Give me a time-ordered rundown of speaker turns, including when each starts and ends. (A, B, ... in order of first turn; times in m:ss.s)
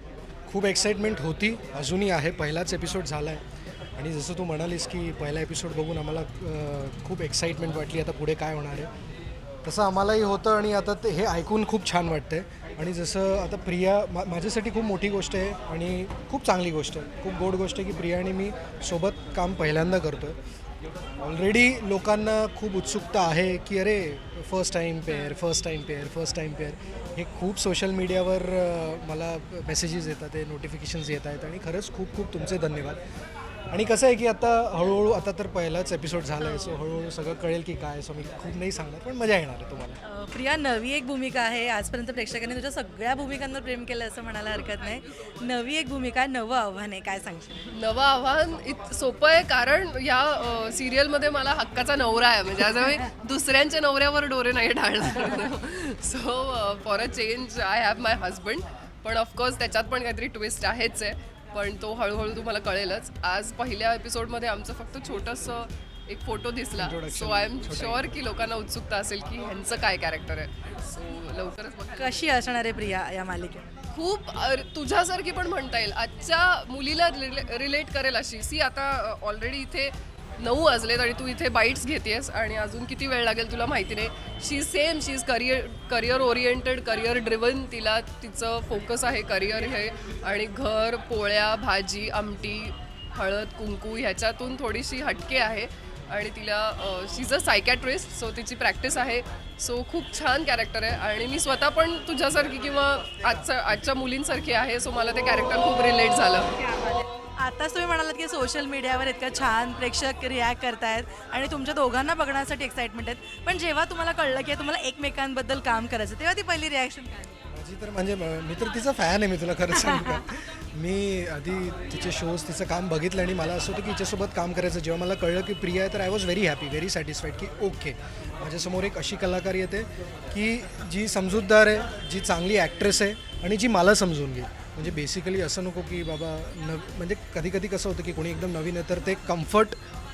0:00.5-0:03.4 A
0:04.0-0:08.9 A
0:09.6-0:20.4 A
0:21.2-0:33.0 A
0:33.7-0:40.0 A
0:36.4-0:36.8 B
0:40.0-0:47.7 C
0:47.7-1:12.2 B
1:06.8-1:08.1 A
1:12.0-1:13.7 C
1:13.9-1:46.5 B
1:46.6-1:57.4 C
1:57.5-2:19.8 A